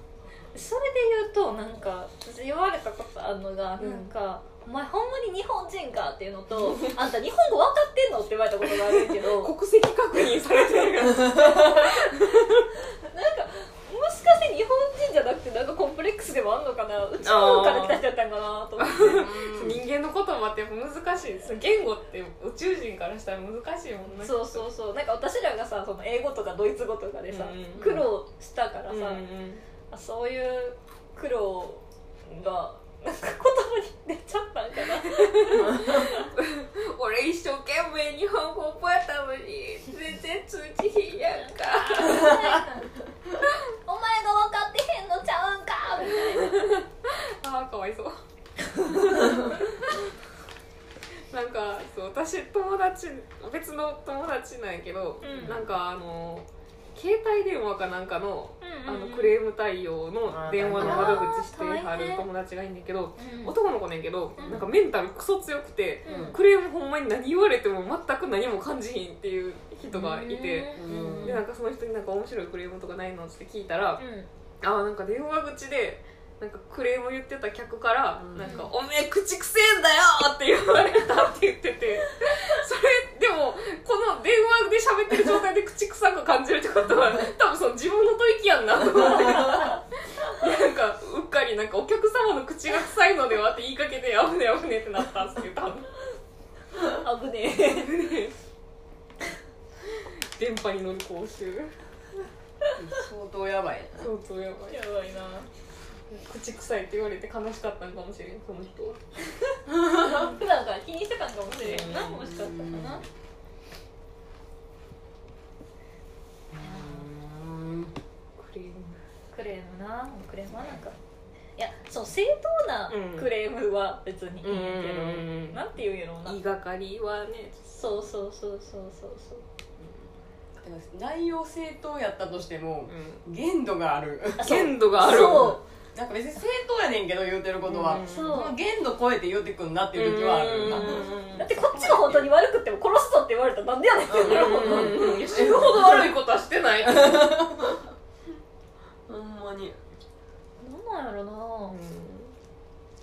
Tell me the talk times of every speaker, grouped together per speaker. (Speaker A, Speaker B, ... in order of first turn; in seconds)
Speaker A: 0.5-9.5, 11.3-12.1, 12.9-19.2, 24.2-29.2, 29.9-36.3, 41.4-42.9, 43.9-46.8, 48.7-49.5, 55.2-55.5, 58.6-59.3, 60.8-62.2, 63.2-63.5, 66.0-66.4, 69.9-71.4, 74.0-74.3, 78.4-78.7, 89.3-89.8, 96.8-97.9, 104.7-105.5, 109.5-113.0, 116.6-117.1, 119.3-121.0, 121.6-126.4, 127.7-129.4, 134.4-135.6, 138.1-138.5, 140.7-146.1, 150.6-151.8
Speaker B: 3.8-4.1, 6.5-7.0, 8.7-12.7, 17.2-18.0, 18.8-24.6, 27.3-28.0, 28.9-29.6, 35.2-42.6, 46.0-48.1, 51.3-74.0, 74.6-95.9, 97.6-98.3, 100.4-101.7, 104.0-104.8, 106.1-109.0, 111.6-112.3, 118.4-119.0, 122.9-123.3, 124.4-125.6, 126.2-127.9, 132.9-133.2, 134.4-135.6, 137.6-138.4, 139.9-141.5, 144.2-147.5, 151.7-152.3
Speaker C: 18.9-19.8, 27.7-28.0, 55.3-55.7, 60.3-61.3, 64.4-64.7, 66.0-66.4, 70.8-71.4, 78.2-78.6, 102.8-104.1, 109.8-110.2, 112.2-113.0, 116.5-117.9, 130.6-142.3, 144.1-145.9, 146.8-147.8, 149.1-149.8